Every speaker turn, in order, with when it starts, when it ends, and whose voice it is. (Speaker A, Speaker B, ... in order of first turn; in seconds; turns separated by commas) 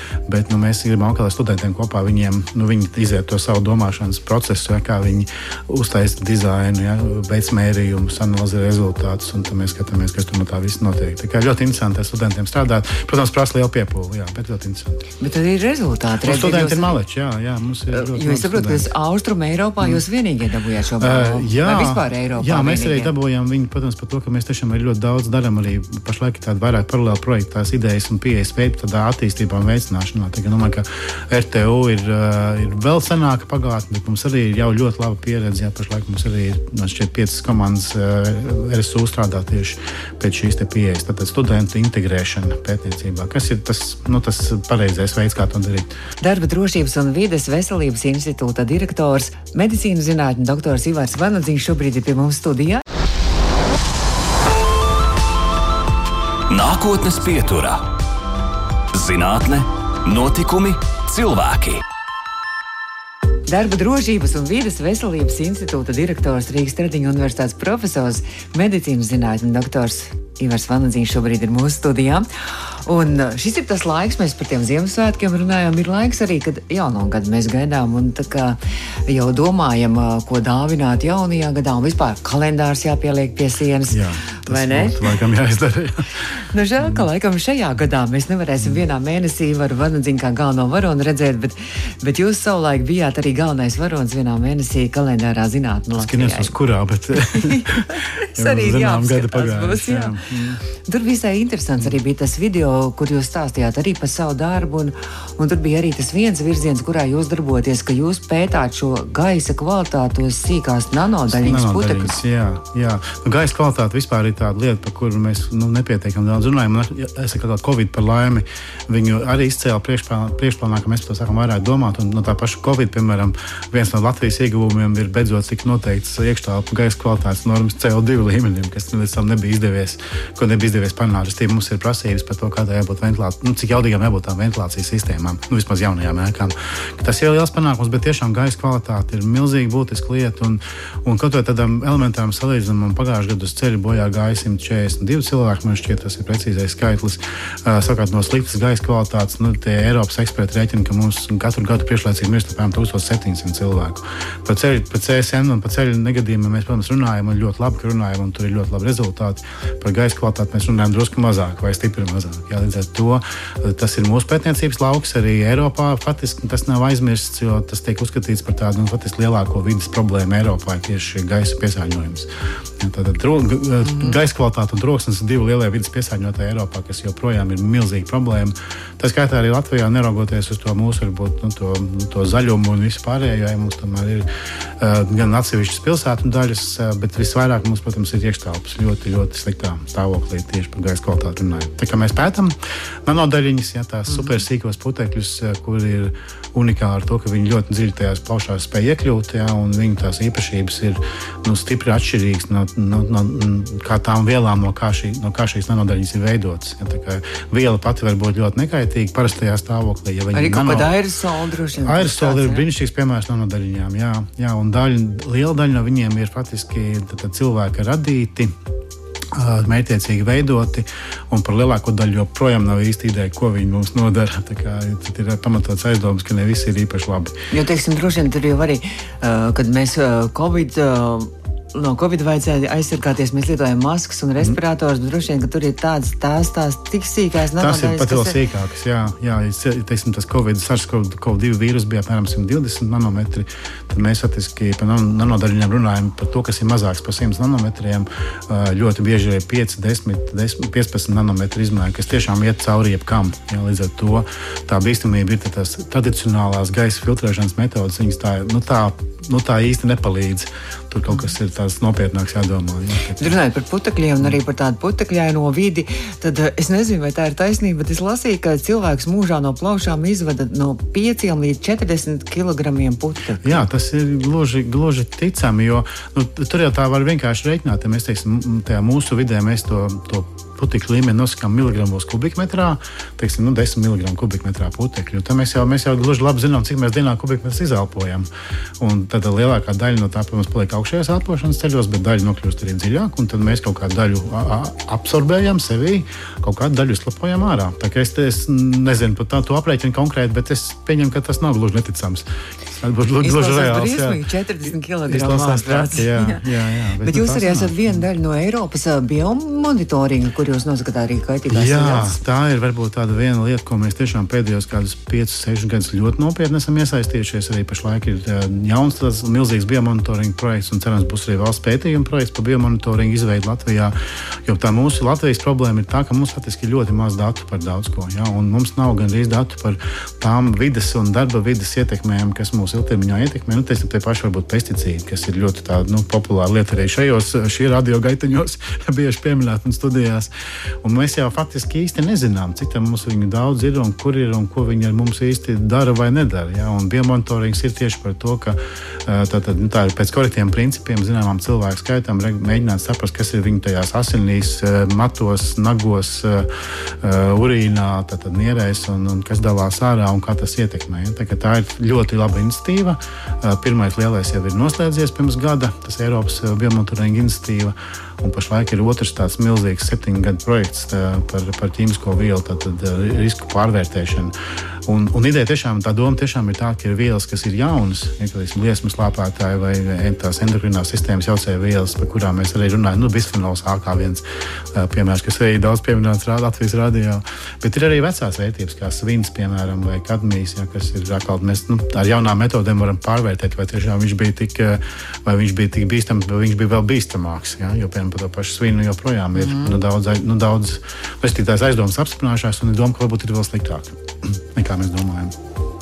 Speaker A: 0.3-15.0, Speaker B: 15.2-16.9, Speaker A: 16.2-18.9, Speaker B: 17.9-23.1, Speaker A: 21.0-45.9, Speaker B: 46.2-52.8, Speaker C: 56.5-57.9, Speaker C: 58.9-61.8, Speaker B: 63.5-72.3, Speaker B: 72.8-85.0, Speaker A: 83.9-86.2, Speaker B: 86.3-96.6, Speaker A: 86.8-87.1, Speaker A: 96.0-100.6, Speaker B: 97.2-100.2, Speaker B: 100.8-112.2, Speaker A: 111.3-184.3, Speaker B: 173.9-174.2, Speaker A: 184.8-210.9, Speaker B: 210.3-212.7, Speaker A: 211.8-218.5, Speaker A: 219.3-227.4, Speaker B: 227.5-238.4, Speaker A: 237.6-263.4, Speaker B: 263.2-273.7, Speaker A: 273.4-288.3, Speaker A: 288.8-304.2, Speaker B: 303.2-306.5, Speaker A: 305.1-308.0, Speaker B: 307.0-312.2, Speaker A: 311.5-340.3, Speaker A: 340.8-374.3, Speaker A: 374.9-405.3, Speaker B: 399.4-399.8